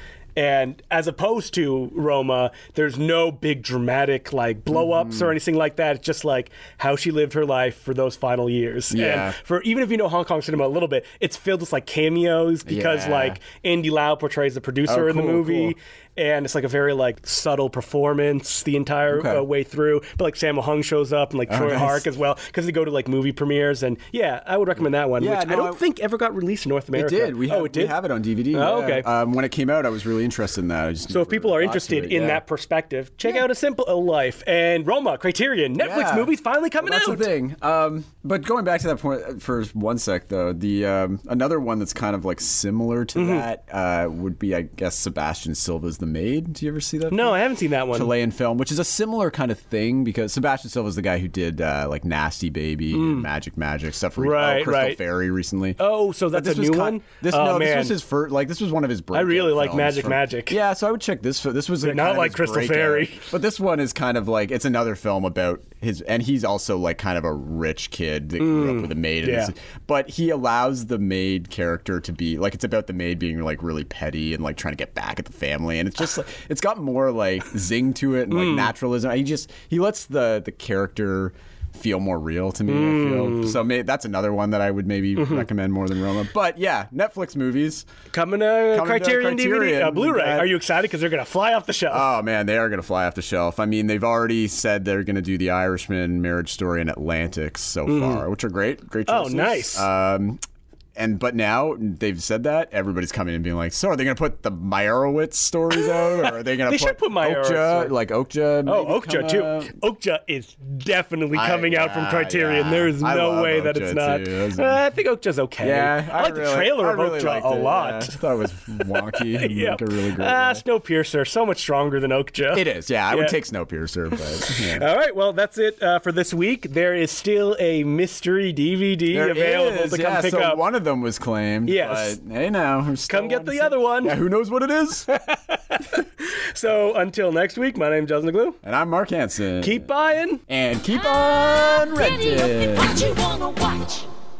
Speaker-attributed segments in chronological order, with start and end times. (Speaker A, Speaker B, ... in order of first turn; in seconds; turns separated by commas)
Speaker A: 0.3-28.0, Speaker B: 4.7-5.3, Speaker B: 8.9-9.3, Speaker B: 12.7-13.4, Speaker B: 14.8-15.8, Speaker B: 19.1-19.4, Speaker B: 21.5-22.1, Speaker B: 25.2-25.8, Speaker B: 26.9-32.4, Speaker A: 28.5-29.1, Speaker A: 31.1-37.3, Speaker B: 35.8-87.8, Speaker A: 43.1-43.5, Speaker A: 47.1-48.1, Speaker A: 52.9-53.3, Speaker A: 54.2-55.0, Speaker A: 55.8-58.0, Speaker A: 59.1-60.5, Speaker A: 61.8-63.3, Speaker A: 68.4-69.5, Speaker A: 78.3-78.7, Speaker A: 82.7-83.6, Speaker A: 85.2-85.5, Speaker A: 88.1-92.1, Speaker B: 88.7-90.5, Speaker B: 91.9-100.4, Speaker A: 97.9-98.2, Speaker A: 99.1-99.9, Speaker B: 101.0-109.7, Speaker A: 106.0-107.9, Speaker A: 108.7-118.1, Speaker B: 111.3-114.8, Speaker B: 115.6-120.6, Speaker A: 119.1-123.4, Speaker B: 122.5-124.9, Speaker A: 124.5-130.6, Speaker B: 129.1-135.1, Speaker A: 131.7-132.2, Speaker A: 133.1-134.2, Speaker A: 135.1-138.6, Speaker B: 138.6-139.9, Speaker A: 139.6-140.4, Speaker B: 140.5-143.1, Speaker C: 142.1-144.1